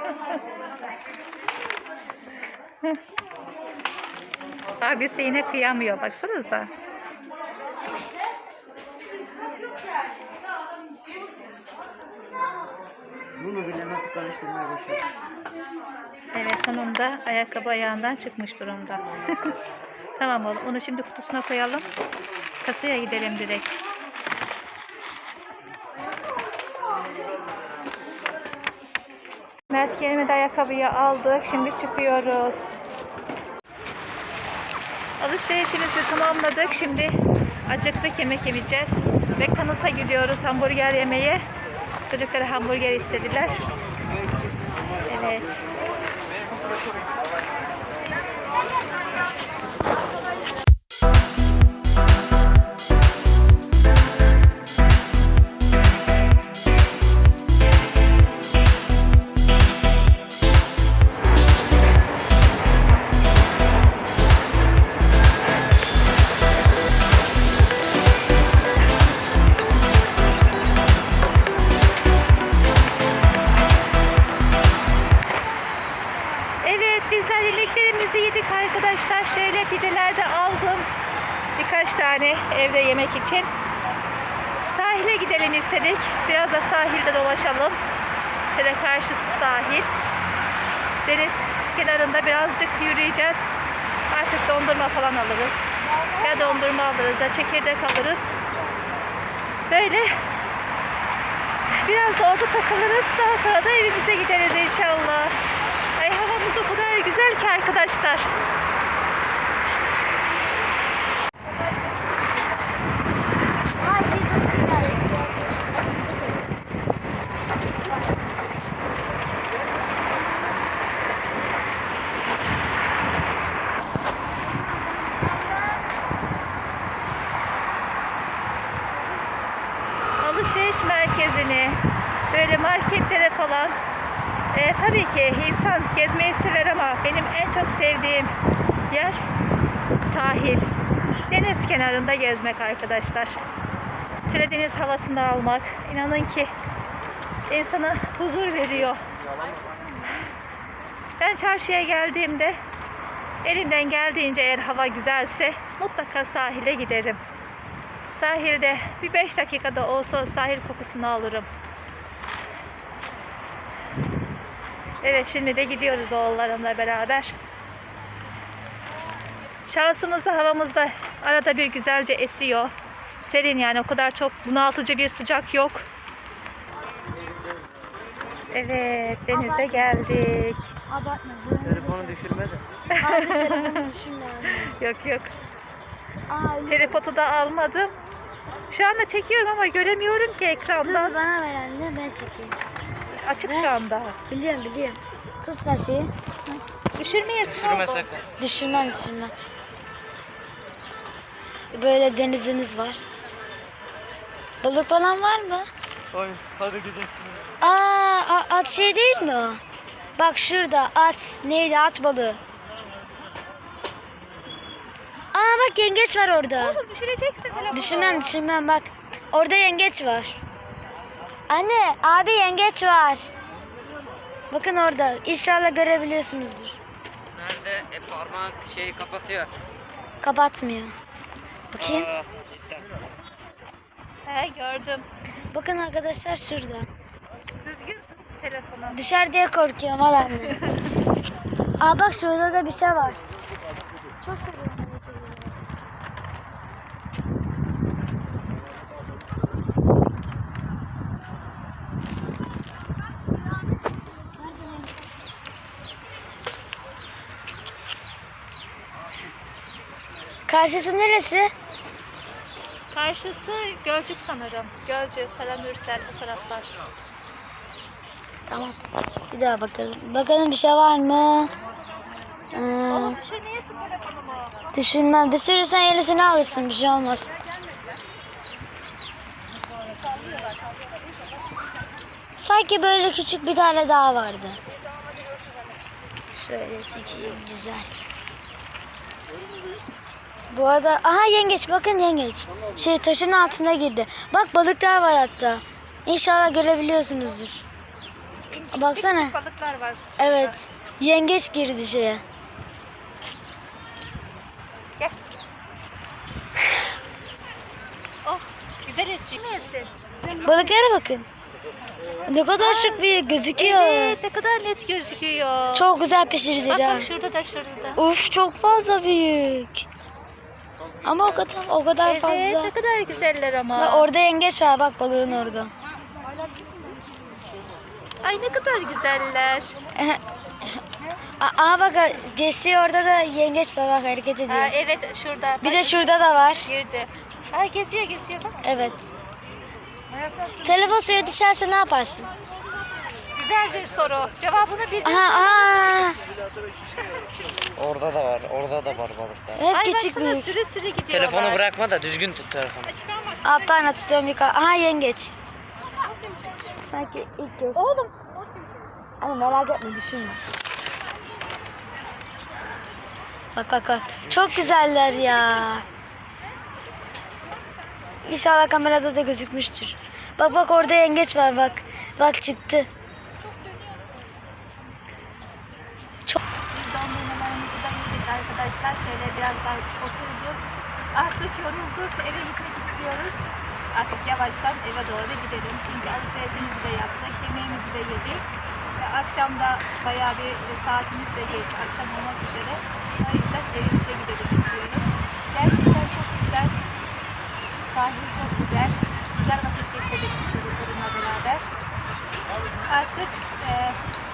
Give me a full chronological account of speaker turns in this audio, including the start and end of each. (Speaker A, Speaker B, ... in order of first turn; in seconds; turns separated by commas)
Speaker A: 4.8-6.7, Speaker B: 13.3-15.0, Speaker A: 16.3-19.5, Speaker A: 20.2-21.9, Speaker A: 22.6-23.8, Speaker A: 29.7-32.6, Speaker A: 35.2-37.1, Speaker A: 37.7-41.4, Speaker A: 42.1-43.6, Speaker A: 45.1-45.5, Speaker A: 76.6-80.9, Speaker A: 81.6-83.5, Speaker A: 84.7-87.8, Speaker A: 88.5-89.9, Speaker A: 91.0-93.4, Speaker A: 94.1-95.6, Speaker C: 95.8-96.7, Speaker A: 96.2-98.3, Speaker A: 99.7-100.3, Speaker A: 101.7-105.4, Speaker A: 106.0-108.3, Speaker C: 113.8-116.3, Speaker C: 117.9-118.3, Speaker C: 124.9-125.5, Speaker A: 130.2-133.8, Speaker A: 134.5-138.4, Speaker A: 138.9-139.3, Speaker A: 140.0-140.7, Speaker A: 141.3-143.4, Speaker A: 144.3-146.5, Speaker A: 147.5-149.0, Speaker A: 151.2-152.6, Speaker A: 153.4-157.2, Speaker A: 158.1-161.5, Speaker A: 165.0-167.3, Speaker A: 169.7-175.8, Speaker B: 177.1-178.0, Speaker A: 178.5-180.6, Speaker C: 179.3-180.0, Speaker C: 180.9-182.2, Speaker B: 181.6-182.6, Speaker A: 182.9-183.9, Speaker C: 183.0-184.8, Speaker A: 184.7-185.3, Speaker C: 186.3-187.0, Speaker A: 186.7-187.9, Speaker A: 188.7-191.2, Speaker C: 190.8-192.6, Speaker A: 193.1-194.2, Speaker C: 193.4-193.7, Speaker C: 194.3-196.1, Speaker A: 196.5-198.1, Speaker B: 197.4-198.3, Speaker C: 198.4-199.3, Speaker C: 201.7-203.0, Speaker C: 204.6-205.7, Speaker B: 206.1-207.1, Speaker C: 207.6-209.6, Speaker C: 210.2-212.4, Speaker C: 215.3-216.8, Speaker A: 216.6-218.3, Speaker C: 217.7-220.4, Speaker C: 221.5-223.3, Speaker C: 224.5-226.8, Speaker B: 227.3-229.5, Speaker C: 230.2-230.9, Speaker C: 231.7-232.1, Speaker B: 231.8-232.8, Speaker A: 234.2-235.1, Speaker C: 235.5-236.9, Speaker A: 237.6-239.0, Speaker C: 238.9-240.6, Speaker A: 240.4-240.9, Speaker C: 241.8-243.2, Speaker C: 244.2-245.7, Speaker C: 254.4-254.9, Speaker C: 260.5-261.5, Speaker A: 262.9-266.7, Speaker C: 268.5-268.8, Speaker C: 269.3-271.5, Speaker C: 272.5-273.2, Speaker A: 272.9-274.5, Speaker C: 274.7-277.3, Speaker C: 282.4-284.6, Speaker C: 286.3-287.9, Speaker C: 290.5-297.6, Speaker A: 298.5-300.6, Speaker C: 298.7-299.4, Speaker C: 300.2-302.2, Speaker A: 308.2-310.7, Speaker C: 310.3-311.3, Speaker C: 312.3-314.2, Speaker A: 312.6-315.9, Speaker C: 315.7-317.1, Speaker A: 316.7-318.0, Speaker C: 317.9-319.9, Speaker C: 321.0-322.7, Speaker A: 322.0-324.1, Speaker C: 323.7-325.7, Speaker A: 328.2-329.8, Speaker C: 329.9-330.8, Speaker C: 331.4-334.7, Speaker A: 334.5-338.6, Speaker C: 335.6-336.7, Speaker C: 338.6-339.1, Speaker C: 340.6-342.3, Speaker A: 343.3-346.1, Speaker C: 345.0-346.2, Speaker A: 346.9-347.5, Speaker B: 347.8-349.6, Speaker C: 349.6-350.5, Speaker A: 349.7-351.6, Speaker B: 351.1-352.9, Speaker A: 352.9-353.9, Speaker C: 353.4-355.3, Speaker C: 356.8-357.9, Speaker A: 357.7-358.3, Speaker C: 359.2-360.4, Speaker C: 363.5-365.9, Speaker B: 364.2-364.8, Speaker C: 368.2-372.9, Speaker A: 376.7-380.6, Speaker A: 381.1-396.8, Speaker A: 397.8-401.7, Speaker A: 402.9-404.0